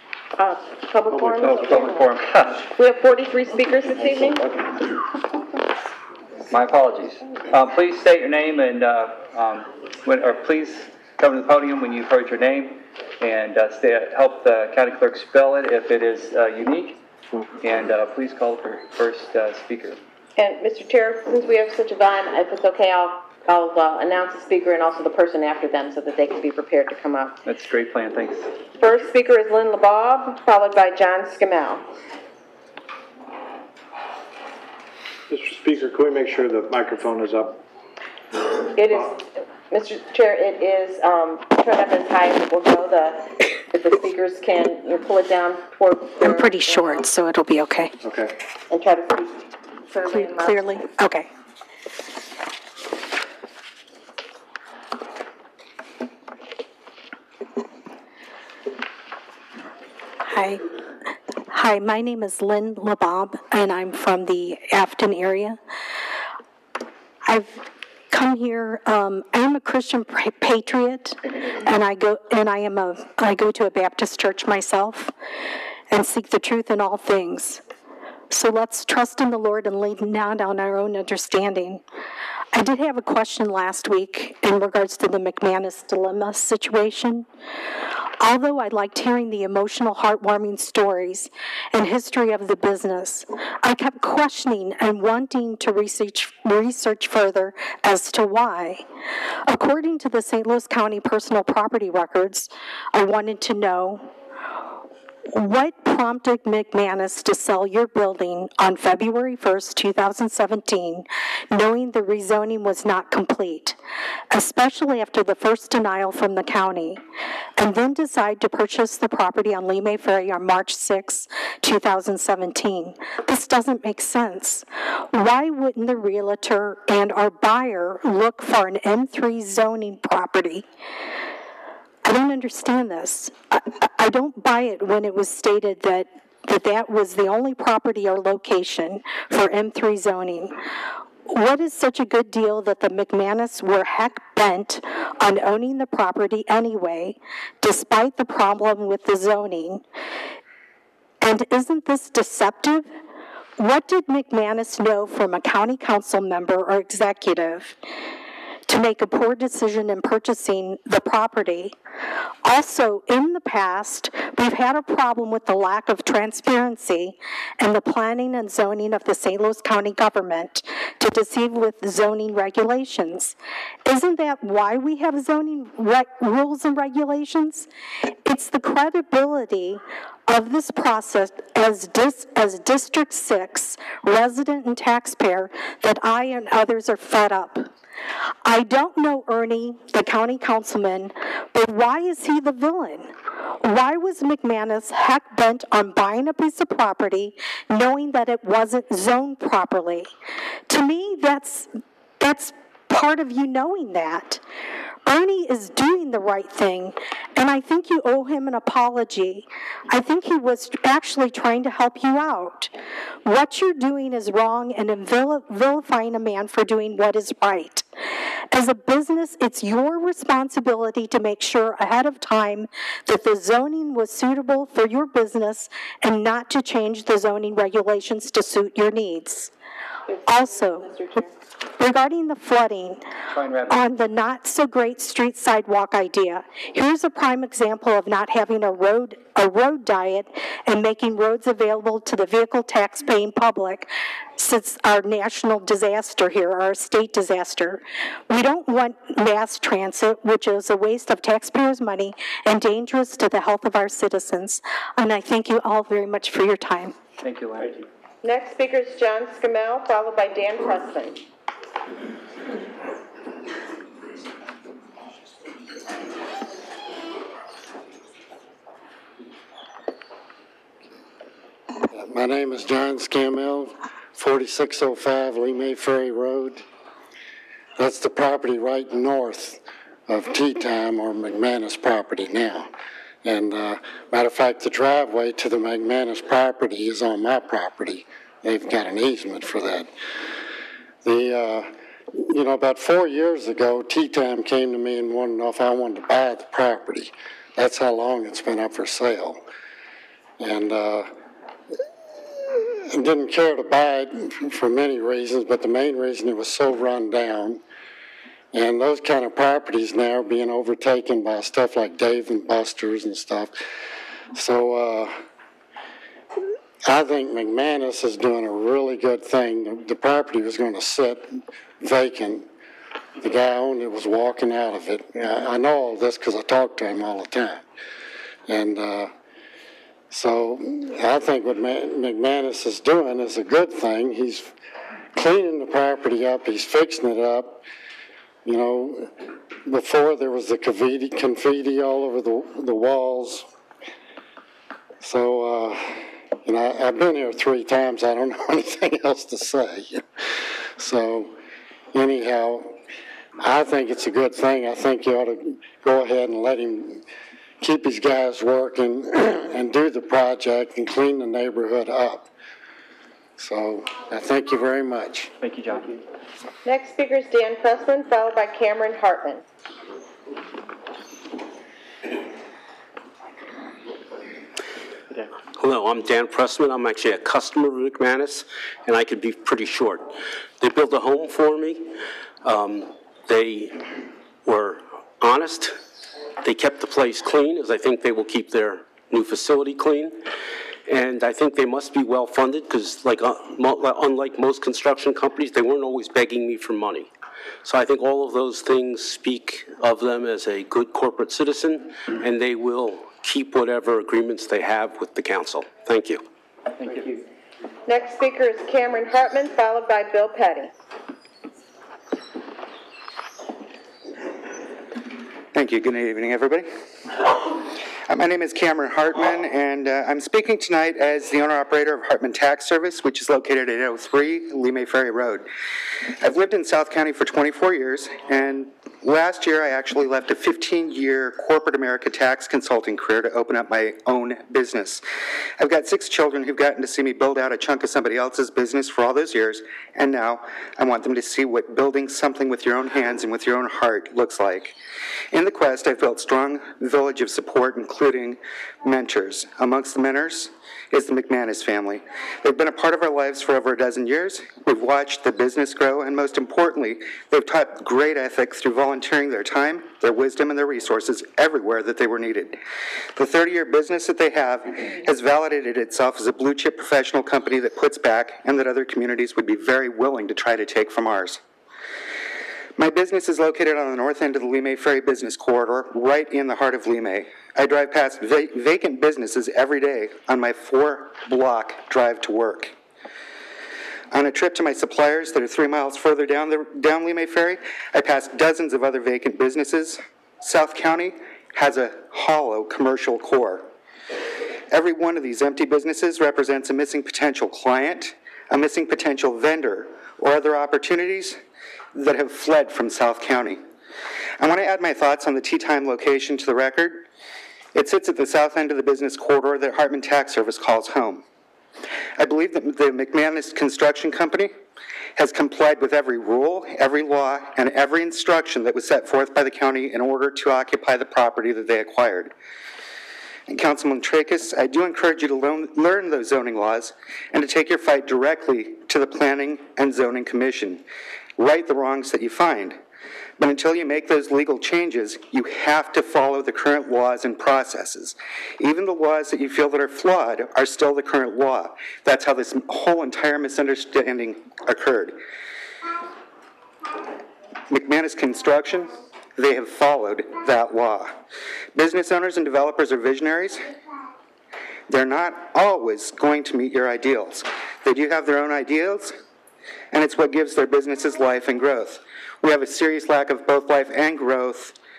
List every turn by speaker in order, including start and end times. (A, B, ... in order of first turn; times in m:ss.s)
0:00.4-0:02.0 A
0:01.1-0:01.8 B
0:01.4-0:02.7 C
0:02.7-0:04.5 A
0:06.5-0:17.0 C
0:17.6-0:20.0 C
0:20.4-0:27.4 A
0:27.4-0:28.5 C
0:28.8-0:31.8 A
0:35.3-0:37.6 B
0:38.8-0:47.1 A
0:46.2-0:47.9 D
0:48.0-0:48.3 B
0:48.7-0:50.8 A
0:50.1-0:51.3 D
1:00.3-1:00.6 D
1:01.5-1:05.6 D
1:07.2-1:15.1 D
1:15.9-1:17.6 D
1:18.3-1:21.8 D
1:22.5-1:27.3 D
1:28.2-1:38.8 D
1:39.5-1:44.1 D
1:45.3-1:53.8 D
1:54.3-1:57.0 D
1:57.6-2:10.6 D
2:12.0-2:20.6 D
2:21.3-2:29.8 D
2:31.2-2:32.9 D
2:33.6-2:37.8 D
2:38.7-2:41.7 D
2:42.4-2:57.7 D
2:58.2-3:07.7 D
3:08.4-3:20.1 D
3:20.7-3:24.4 D
3:25.0-3:32.7 D
3:33.2-3:37.8 D
3:38.5-3:49.5 D
3:50.1-3:51.2 A
3:50.2-3:51.2 D
3:51.8-3:53.0 D
3:53.3-3:53.9 C
3:53.7-4:16.9 D
4:17.2-4:17.8 C
4:18.2-4:21.2 A
4:31.9-4:36.6 E
4:37.8-4:42.7 E
4:43.2-4:49.9 E
4:51.0-4:59.4 E
5:00.4-5:01.1 E
5:02.9-5:07.6 E
5:08.5-5:13.6 E
5:14.3-5:15.2 E
5:16.8-5:22.5 E
5:23.2-5:27.6 E
5:28.5-5:29.1 E
5:30.1-5:34.5 E
5:35.1-5:37.6 E
5:38.4-5:43.5 E
5:45.0-5:50.0 E
5:50.8-5:51.4 E
5:51.9-5:52.8 E
5:53.4-5:57.0 E
5:57.6-6:02.3 E
6:03.4-6:05.3 E
6:05.4-6:06.0 C
6:06.6-6:09.4 A
6:15.1-6:21.9 F
6:22.4-6:23.8 F
6:24.4-6:25.8 F
6:26.4-6:30.2 F
6:30.9-6:37.1 F
6:37.6-6:46.2 F
6:46.8-6:47.1 C
6:47.8-6:50.7 A
6:55.5-6:56.7 G
6:58.1-7:05.4 G
7:06.2-7:15.0 G
7:15.6-7:24.8 G
7:25.3-7:42.6 G
7:43.1-7:51.4 G
7:52.8-8:02.7 G
8:04.1-8:13.7 G
8:14.7-8:21.4 G
8:21.9-8:23.6 G
8:24.4-8:27.0 G
8:27.7-8:31.2 G
8:32.2-8:34.5 G
8:35.2-8:42.3 G
8:43.5-8:50.8 G
8:51.4-8:52.8 G
8:53.4-9:05.2 G
9:07.7-9:11.2 G
9:11.7-9:13.6 G
9:14.9-9:19.2 G
9:19.9-9:24.7 G